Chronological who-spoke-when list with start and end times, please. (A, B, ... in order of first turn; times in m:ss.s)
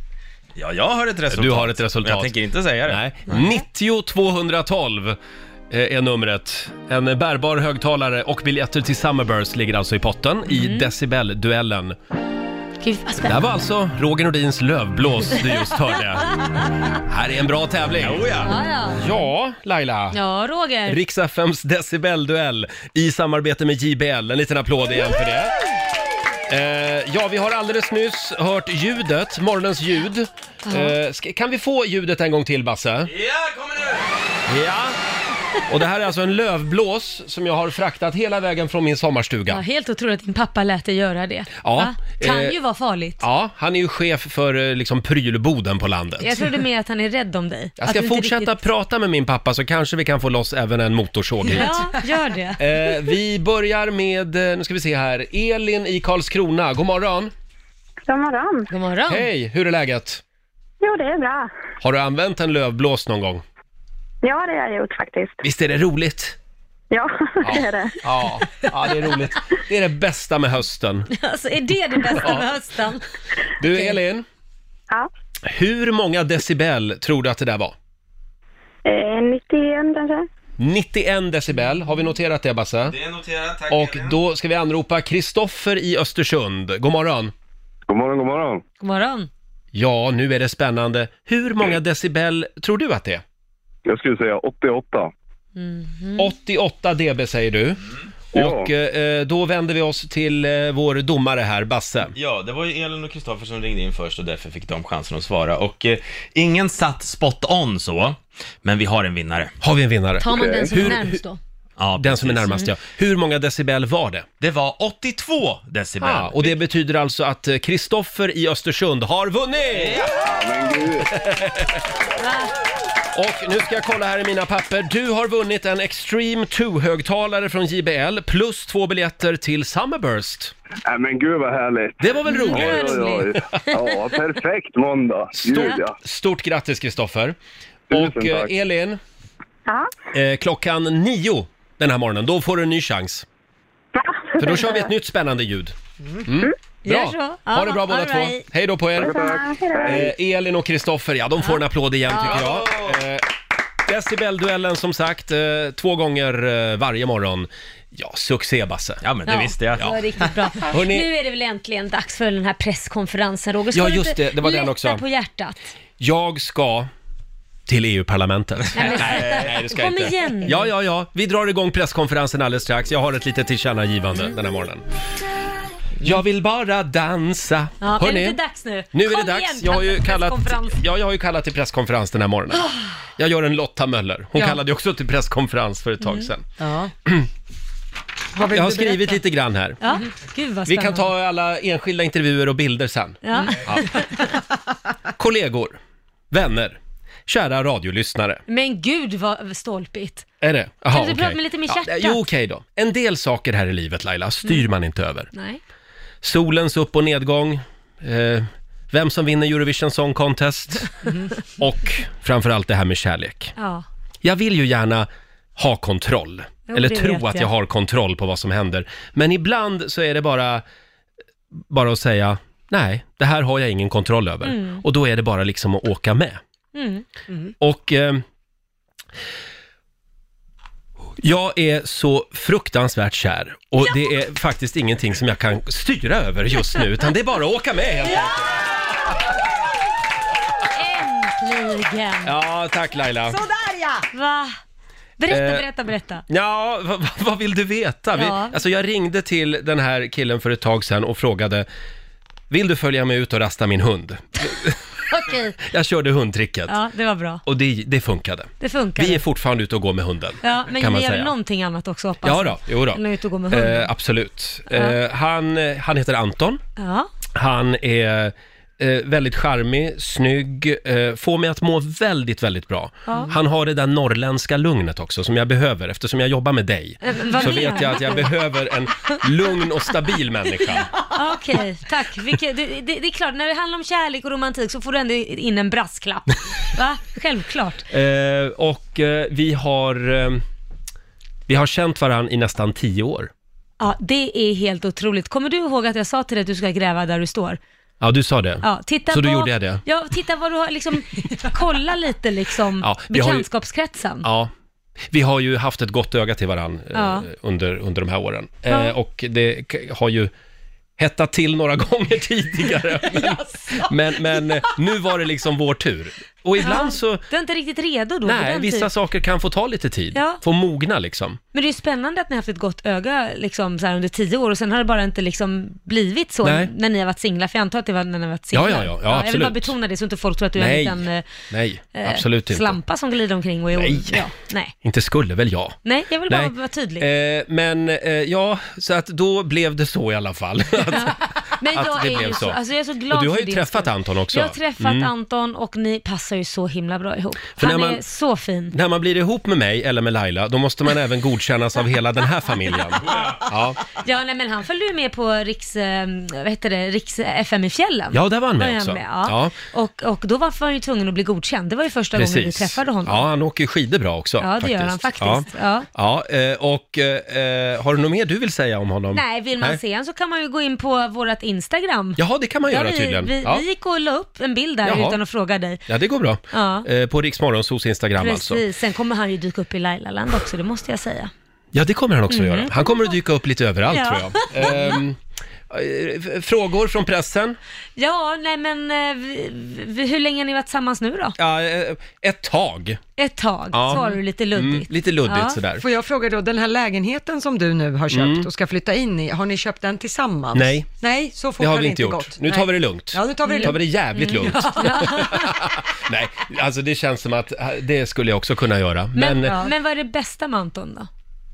0:00.6-0:03.4 A
0:01.3-0:02.4 B
0:02.9-0:05.2 B
0:05.7-0:12.0 B
0:10.5-0:10.9 C
0:12.8-0:13.4 C
0:13.2-0:16.4 B
0:16.9-0:18.3 B
0:18.0-0:18.5 A
0:18.4-0:19.0 C
0:19.0-0:20.2 B
0:20.1-0:21.0 C
0:20.9-0:25.6 B
0:26.5-0:33.1 B
0:30.7-0:30.9 C
0:33.1-0:34.1 A
0:34.5-0:35.0 B
0:35.7-0:39.6 B
0:39.5-0:43.2 C
0:41.6-0:42.6 B
0:43.2-0:46.4 B
0:46.2-0:48.6 C
0:47.8-0:51.7 B
0:51.5-0:52.9 C
0:52.6-0:57.3 B
0:58.1-0:58.7 D
0:58.7-0:59.3 C
0:59.1-1:00.2 B
1:00.8-1:01.5 D
1:01.8-1:03.4 B
1:04.2-1:05.4 D
1:05.4-1:06.4 B
1:06.9-1:08.3 D
1:07.4-1:11.1 B
1:11.1-1:13.0 C
1:12.2-1:12.5 B
1:13.6-1:14.3 B
1:13.7-1:14.0 C
1:15.4-1:17.8 B
1:18.9-1:20.3 D
1:20.6-1:23.0 B
1:22.9-1:24.2 A
1:23.7-1:27.3 B
1:27.9-1:28.6 E
1:28.8-1:29.3 C
1:29.7-1:33.2 B
1:33.9-1:35.1 E
1:35.6-1:36.3 C
1:36.2-1:37.8 B
1:38.3-1:42.1 B
1:38.4-1:38.7 E
1:42.2-1:49.5 A
1:49.6-1:51.2 B
1:50.2-1:51.4 C
1:50.4-1:50.7 E
1:51.8-1:52.7 A
1:52.0-1:54.3 B
1:54.4-1:56.5 A
1:56.0-2:00.0 B
1:59.8-2:00.4 A
2:00.2-2:01.1 E
2:01.1-2:01.8 B
2:02.2-2:02.5 C
2:03.1-2:10.5 B
2:10.9-2:16.0 E
2:12.0-2:13.3 B
2:12.2-2:13.8 C
2:15.3-2:17.4 B
2:15.5-2:15.8 C
2:17.9-2:18.5 E
2:17.9-2:19.0 B
2:20.1-2:23.3 B
2:24.0-2:24.9 D
2:24.4-2:29.2 B
2:26.8-2:28.4 C
2:29.0-2:30.0 D
2:29.0-2:30.1 E
2:29.8-2:33.3 B
2:32.2-2:33.0 A
2:33.9-2:39.0 B
2:39.0-2:40.5 A
2:39.3-2:45.6 C
2:40.5-2:41.1 B
2:43.7-2:45.0 B
2:46.0-2:46.9 B
2:47.7-2:54.8 B
2:48.7-2:50.7 C
2:48.9-2:49.5 A
2:56.0-2:58.4 B
2:57.8-3:00.8 C
2:58.9-3:06.5 B
3:06.6-3:06.9 F
3:08.4-3:09.2 F
3:08.4-3:09.8 B
3:09.8-3:11.1 C
3:10.7-3:14.2 B
3:13.2-3:14.4 C
3:15.2-3:15.8 B
3:16.3-3:18.4 B
3:18.5-3:20.2 C
3:20.4-3:25.3 B
3:20.9-3:22.2 C
3:25.3-3:25.6 C
3:26.2-3:30.9 B
3:31.6-3:33.5 B
3:33.6-3:33.8 C
3:34.2-3:40.6 B
3:36.7-3:37.5 C
3:41.6-3:46.4 B
3:44.4-3:44.8 C
3:46.7-3:47.0 C
3:47.6-3:48.2 B
3:51.2-3:58.5 B
4:00.7-4:02.3 C
4:02.2-4:03.4 B
4:03.3-4:04.1 F
4:04.1-4:04.5 C
4:05.2-4:06.2 C
4:05.3-4:05.7 B
4:06.3-4:11.7 B
4:08.2-4:08.6 C
4:12.5-4:14.8 B
4:15.1-4:15.6 C
4:15.6-4:16.8 B
4:16.7-4:17.4 C
4:17.5-4:21.3 B
4:18.6-4:19.2 C
4:20.4-4:23.9 C
4:22.2-4:26.6 B
4:24.7-4:25.0 C
4:26.8-4:27.1 C
4:27.4-4:40.9 B
4:33.1-4:33.3 C
4:37.0-4:38.3 C
4:41.1-4:47.8 C
4:47.9-4:50.4 B
4:51.5-4:53.3 B
4:53.8-4:57.6 C
4:58.0-4:59.8 B
4:58.6-5:04.3 C
5:02.8-5:03.5 B
5:04.2-5:04.5 B
5:05.1-5:10.3 B
5:06.9-5:07.3 C
5:08.7-5:08.9 C
5:11.0-5:17.2 B
5:16.6-5:18.9 C
5:18.2-5:21.4 B
5:20.1-5:20.4 C
5:21.5-5:31.3 C
5:26.4-5:26.7 B
5:28.5-5:29.8 B
5:30.6-5:32.8 B
5:31.9-5:34.7 C
5:33.7-5:34.3 B
5:34.8-5:45.1 B
5:35.8-5:37.1 C
5:40.9-5:48.8 C
5:47.6-5:48.0 B
5:48.7-5:53.8 B
5:54.0-6:03.2 C
5:58.1-5:59.6 B
6:02.1-6:09.8 B
6:04.4-6:05.9 C
6:09.1-6:15.8 C
6:12.2-6:13.6 B
6:14.8-6:15.2 B
6:15.9-6:18.6 B
6:16.5-6:16.9 C
6:18.2-6:21.3 C
6:21.7-6:27.6 B
6:22.3-6:23.2 C
6:23.9-6:25.0 C
6:28.0-6:31.4 C
6:31.4-6:33.0 B
6:33.2-6:35.6 C
6:33.7-6:35.8 B
6:35.8-6:45.3 F
6:38.1-6:38.5 B
6:40.5-6:40.9 B
6:41.6-6:49.6 B
6:43.4-6:45.5 C
6:49.2-6:51.1 C
6:49.5-6:49.7 F